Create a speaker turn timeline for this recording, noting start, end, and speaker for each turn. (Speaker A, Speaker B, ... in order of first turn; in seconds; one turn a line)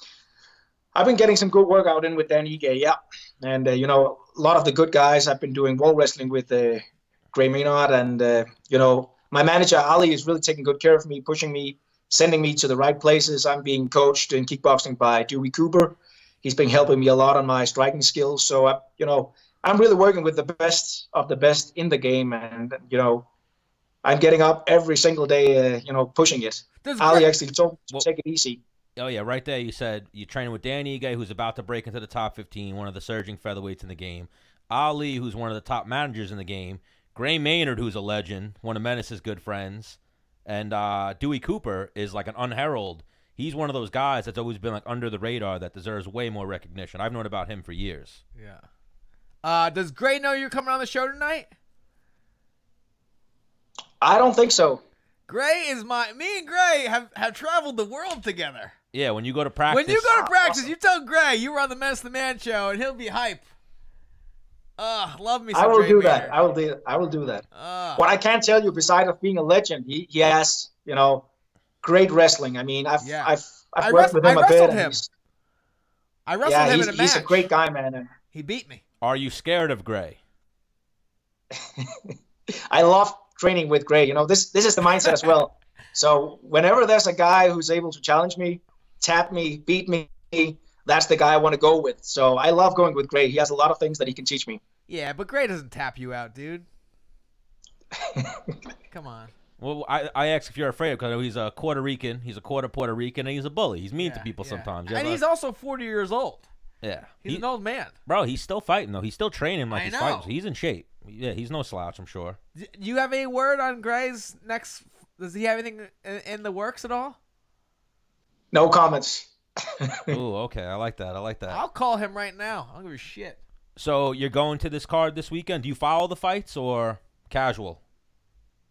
Speaker A: 0.9-23.3
Speaker A: 24.0-28.6
Speaker B: 26.8-27.3
Speaker C: 29.0-48.2
Speaker B: 48.4-48.6
Speaker B: 49.4-51.5
Speaker A: 54.0-54.8
Speaker B: 55.3-58.7
Speaker C: 58.9-60.2
Speaker B: 59.7-63.4
Speaker A: 60.2-60.7
Speaker B: 64.8-66.3
Speaker A: 65.5-67.4
Speaker B: 67.5-68.0
Speaker A: 68.0-71.3
Speaker A: 71.8-75.1
Speaker B: 73.0-75.0
Speaker B: 76.2-77.5
Speaker A: 76.4-78.1
Speaker B: 78.3-78.8
Speaker C: 79.0-80.2
Speaker A: 81.8-82.1
Speaker A: 82.7-94.6
Speaker B: 94.9-96.7
Speaker B: 98.9-99.3
Speaker C: 99.6-105.2
Speaker B: 104.0-106.5
Speaker C: 106.8-107.4
Speaker B: 107.2-107.9
Speaker C: 108.0-112.4
Speaker B: 109.7-110.3
Speaker B: 112.6-117.2
Speaker A: 118.5-119.3
Speaker A: 119.9-120.1
Speaker C: 120.1-121.6
Speaker B: 121.5-123.4
Speaker C: 123.8-127.8